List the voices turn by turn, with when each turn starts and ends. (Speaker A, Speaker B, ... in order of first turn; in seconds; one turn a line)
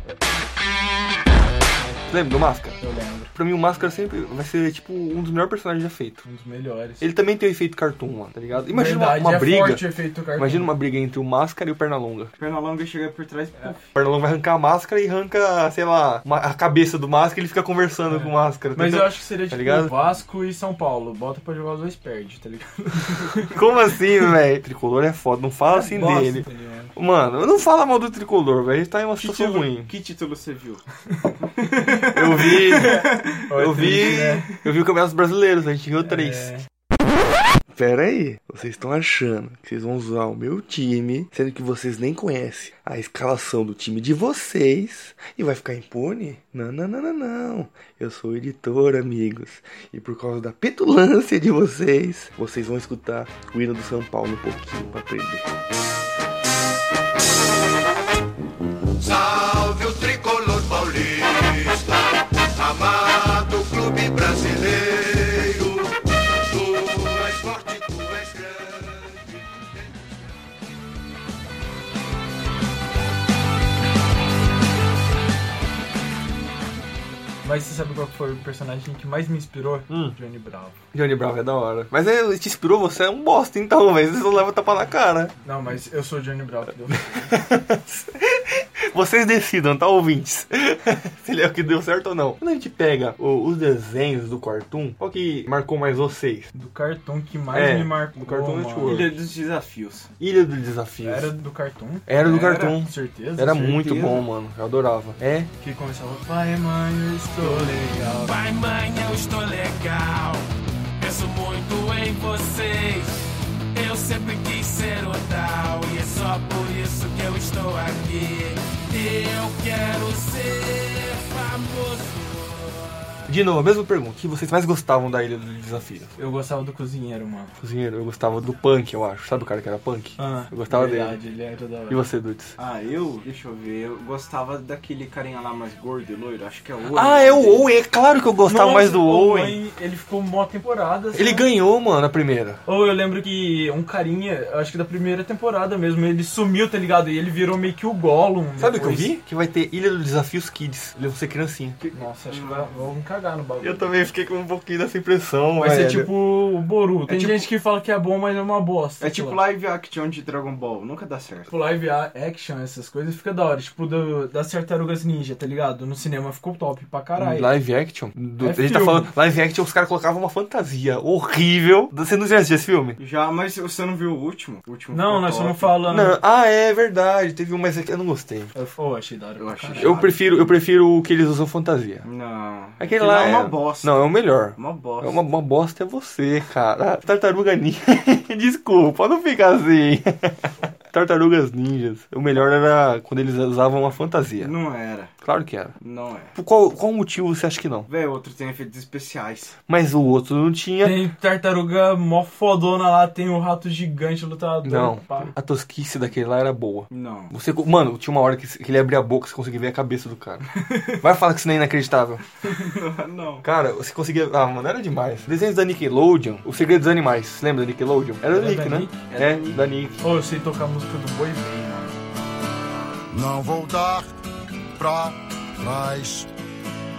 Speaker A: 2.1-2.8
Speaker B: 2.8-3.3
Speaker A: 3.3-6.2
Speaker B: 6.2-7.0
Speaker A: 7.0-12.3
Speaker B: 8.6-10.7
Speaker C: 12.4-13.8
Speaker A: 13.9-19.9
Speaker B: 18.1-23.5
Speaker A: 23.5-29.9
Speaker B: 25.6-26.9
Speaker C: 29.2-30.8
Speaker C: 31.4-33.4
Speaker B: 31.7-34.5
Speaker A: 32.1-36.5
Speaker B: 36.0-36.6
Speaker A: 37.7-55.5
Speaker D: 59.0-61.2
Speaker D: 62.7-65.6
Speaker D: 66.7-68.3
Speaker B: 77.4-80.8
Speaker A: 79.9-80.2
Speaker A: 80.9-85.3
Speaker B: 85.4-87.3
Speaker A: 87.2-96.5
Speaker B: 96.5-99.0
Speaker A: 97.5-99.2
Speaker C: 98.8-100.1
Speaker A: 100.2-101.3
Speaker B: 101.0-102.1
Speaker A: 102.1-105.5
Speaker C: 102.2-102.8
Speaker B: 102.6-103.8
Speaker C: 103.6-104.2
Speaker B: 105.6-108.3
Speaker E: 108.2-122.2
Speaker A: 123.3-126.1
Speaker B: 126.2-127.5
Speaker A: 127.6-131.2
Speaker B: 130.2-132.0
Speaker A: 131.9-132.5
Speaker C: 132.6-137.7
Speaker A: 136.9-139.6
Speaker B: 138.4-141.5
Speaker A: 141.1-142.6
Speaker B: 142.7-149.1
Speaker A: 148.6-151.8
Speaker C: 151.8-152.7
Speaker B: 151.9-153.9
Speaker A: 153.6-156.1
Speaker B: 155.6-159.4
Speaker C: 157.1-157.5
Speaker C: 159.0-161.5
Speaker B: 161.5-167.5
Speaker A: 167.2-173.0
Speaker B: 168.4-169.1
Speaker C: 173.0-175.8
Speaker B: 174.9-176.2
Speaker A: 175.9-178.5
Speaker B: 178.5-180.0
Speaker C: 179.4-180.6
Speaker A: 179.8-182.1
Speaker C: 182.0-184.0
Speaker A: 182.8-194.5
Speaker C: 184.5-185.2
Speaker C: 194.4-195.1
Speaker A: 195.2-195.7
Speaker C: 195.8-196.3
Speaker A: 196.3-197.9
Speaker C: 197.9-199.6
Speaker A: 199.7-201.0
Speaker B: 200.8-205.3
Speaker A: 204.6-210.5
Speaker C: 206.9-207.3
Speaker B: 210.6-210.9
Speaker A: 211.0-212.2
Speaker C: 212.5-213.4
Speaker A: 213.4-220.0
Speaker B: 218.3-219.0
Speaker C: 219.1-219.6
Speaker B: 220.0-221.9
Speaker D: 223.1-224.2
Speaker D: 224.8-226.3